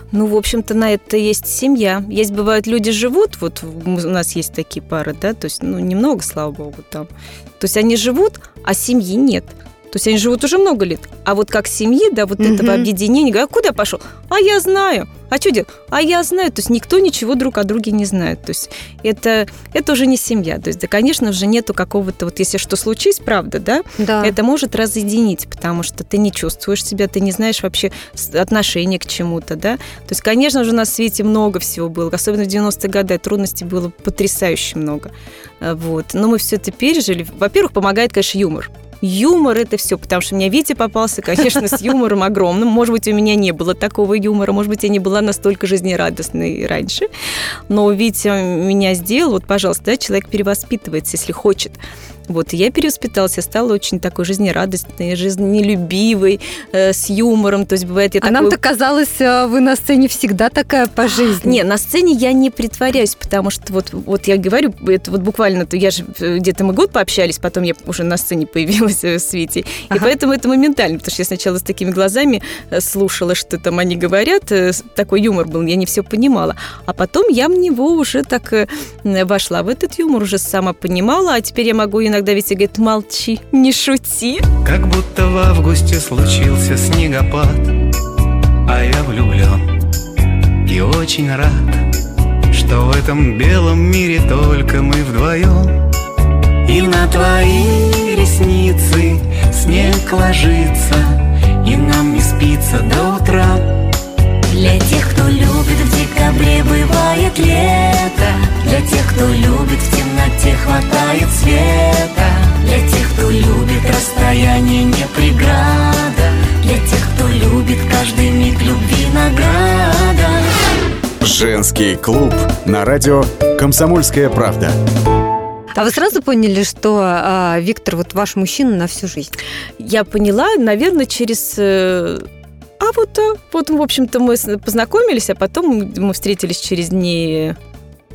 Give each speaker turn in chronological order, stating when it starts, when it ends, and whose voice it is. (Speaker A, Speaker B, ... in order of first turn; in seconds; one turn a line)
Speaker A: 0.1-47.1
Speaker B: 12.4-12.9
Speaker B: 24.0-24.4
Speaker A: 47.7-58.6
Speaker B: 58.2-61.6
Speaker A: 61.4-84.5
Speaker C: 84.6-87.8
Speaker C: 88.7-89.6
Speaker C: 90.6-91.8
Speaker C: 92.5-95.8
Speaker C: 96.6-103.6
Speaker D: 104.5-120.5
Speaker E: 121.2-124.8
Speaker B: 125.8-129.3
Speaker A: 129.8-132.3
Speaker A: 132.8-137.6